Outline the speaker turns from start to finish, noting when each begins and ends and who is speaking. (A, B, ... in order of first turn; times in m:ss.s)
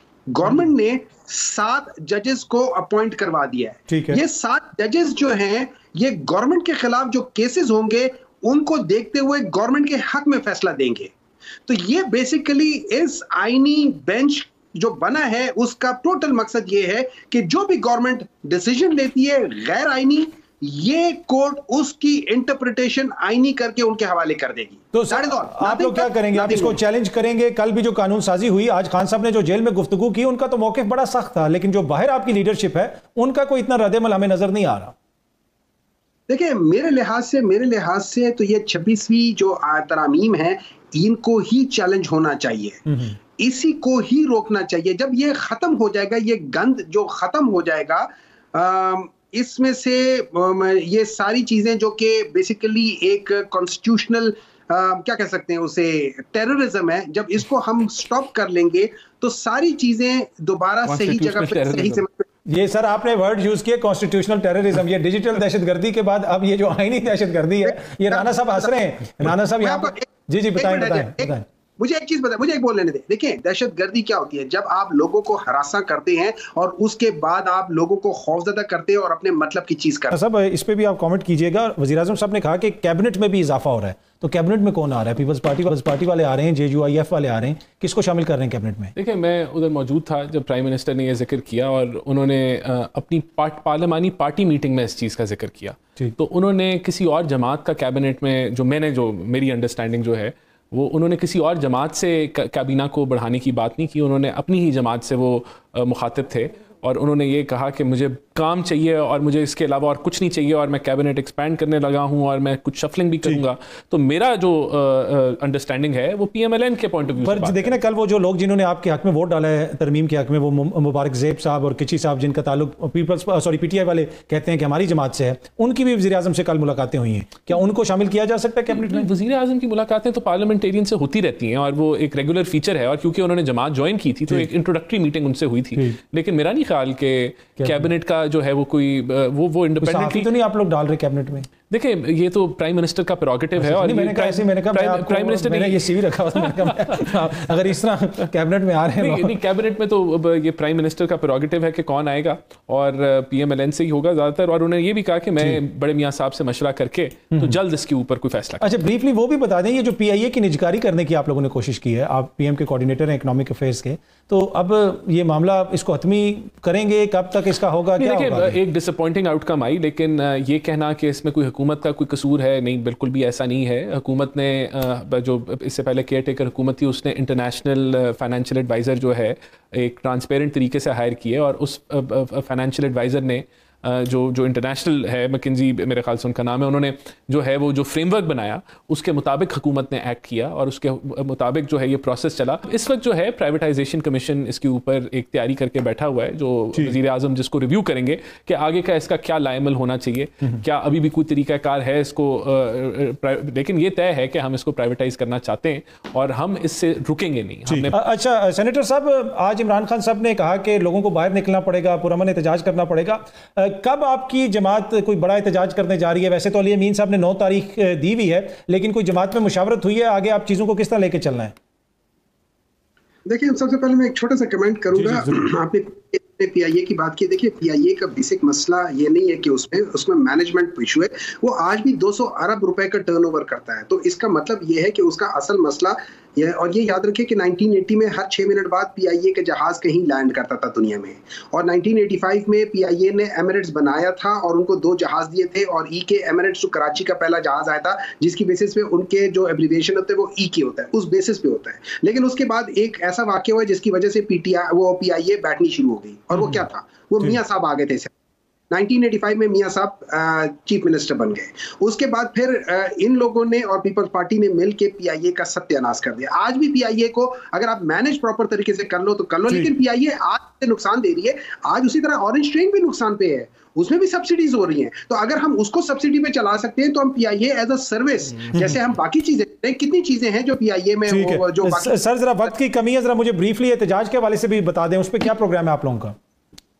0:00.3-0:11.1 A
0:03.9-0:04.2 B
0:11.7-0:26.8 A
0:24.9-0:34.9 B
0:36.3-0:42.8 A
0:42.9-0:43.1 B
0:43.4-1:02.2 A
1:00.8-1:02.0 C
1:02.5-1:11.4 B
1:07.6-1:20.2 A
1:20.1-1:28.9 B
1:29.0-1:57.8 C
1:57.2-2:09.1 B
2:08.7-2:20.3 C
2:19.8-2:21.5 B
2:21.7-2:27.1 C
2:23.6-2:29.4 B
2:29.0-2:38.8 C
2:38.6-2:48.6 B
2:48.0-3:28.0 C
3:27.7-3:41.5 B
3:43.2-4:18.1 A
3:44.9-3:45.5 B
4:16.3-4:16.6 B
4:18.7-4:42.5 A
4:38.3-4:38.7 C
4:41.1-4:46.1 B